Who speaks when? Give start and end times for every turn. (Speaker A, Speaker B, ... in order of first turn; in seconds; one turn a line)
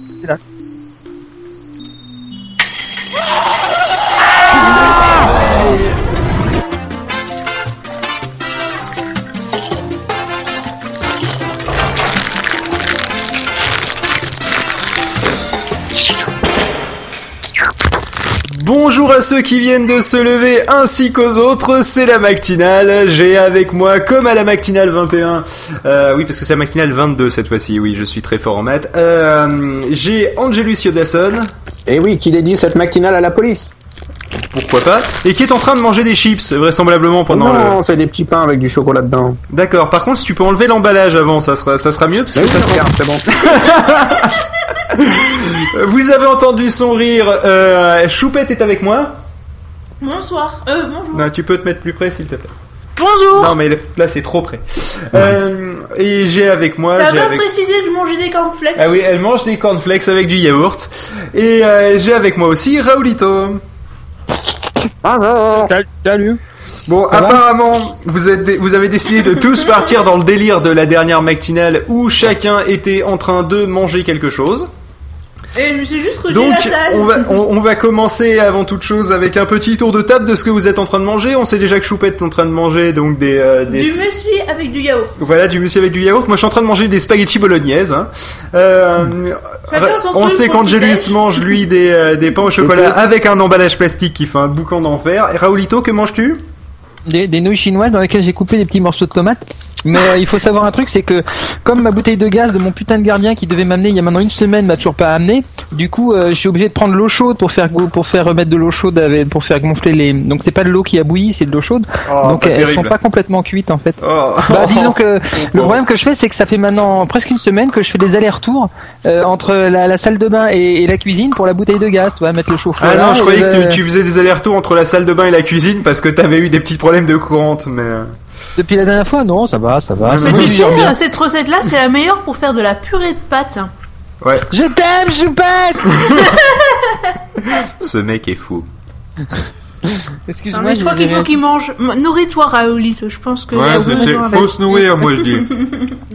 Speaker A: 18.5-31.5
Speaker B: 31.9-33.7
Speaker A: 34.5-37.8
Speaker B: 37.3-39.4
Speaker A: 39.5-49.1
Speaker B: 42.3-43.0
Speaker C: 50.0-51.3
Speaker A: 51.1-52.5
Speaker C: 53.0-53.5
Speaker A: 53.3-57.5
Speaker C: 56.9-58.9
Speaker A: 58.8-63.6
Speaker B: 65.0-65.7
Speaker D: 65.5-66.4
Speaker A: 66.9-74.7
Speaker D: 67.1-67.4
Speaker C: 75.5-77.4
Speaker A: 76.3-84.0
Speaker C: 83.7-85.1
Speaker A: 85.2-96.4
Speaker C: 89.7-91.5
Speaker B: 92.6-93.0
Speaker D: 97.0-123.8
Speaker A: 112.0-113.0
Speaker A: 114.0-115.0
Speaker A: 115.5-115.8
Speaker A: 122.8-128.0
Speaker D: 128.6-130.9
Speaker A: 130.1-130.6
Speaker C: 130.1-133.7
Speaker D: 134.5-136.1
Speaker A: 136.0-136.3
Speaker A: 137.4-138.7
Speaker D: 140.2-141.4
Speaker C: 140.5-145.9
Speaker A: 143.5-145.4